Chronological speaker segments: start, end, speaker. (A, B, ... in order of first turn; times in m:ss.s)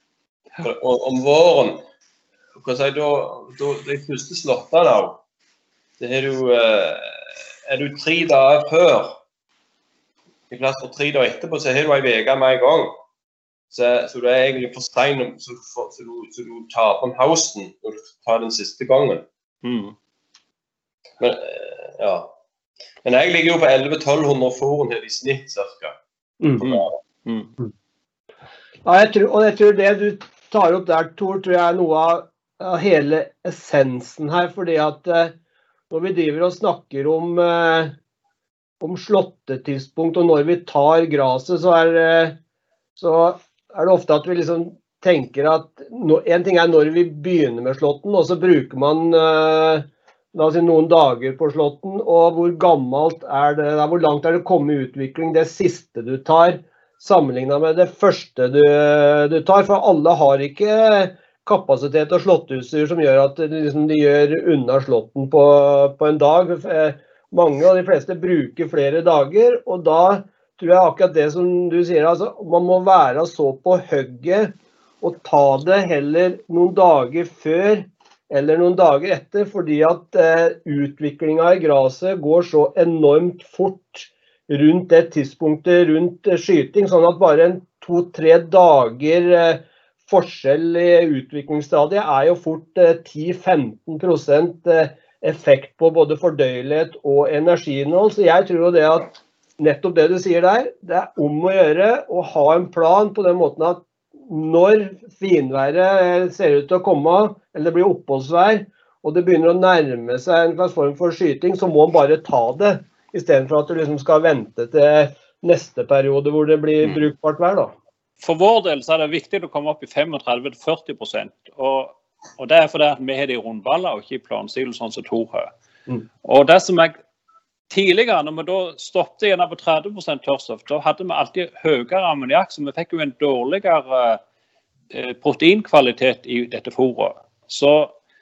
0:00.6-0:01.8 A
0:02.6-0:05.2 A
0:06.0-0:09.1 A
0:10.5-0:12.9 A
0:13.7-0:19.2 A
0:19.6-0:19.9 B
0:21.2-0:22.3 A
0:23.0-0:26.0 A
0:26.6-0:27.5 B
0:26.6-0:26.9 A
0:28.8-0:35.3 C
0:35.9-0:37.9 C
0:38.8-0:42.4 C
0:43.0-1:57.7 C
1:58.2-2:05.5 B
2:06.2-2:07.0 B
2:07.7-2:14.2 B
2:14.9-2:17.9 B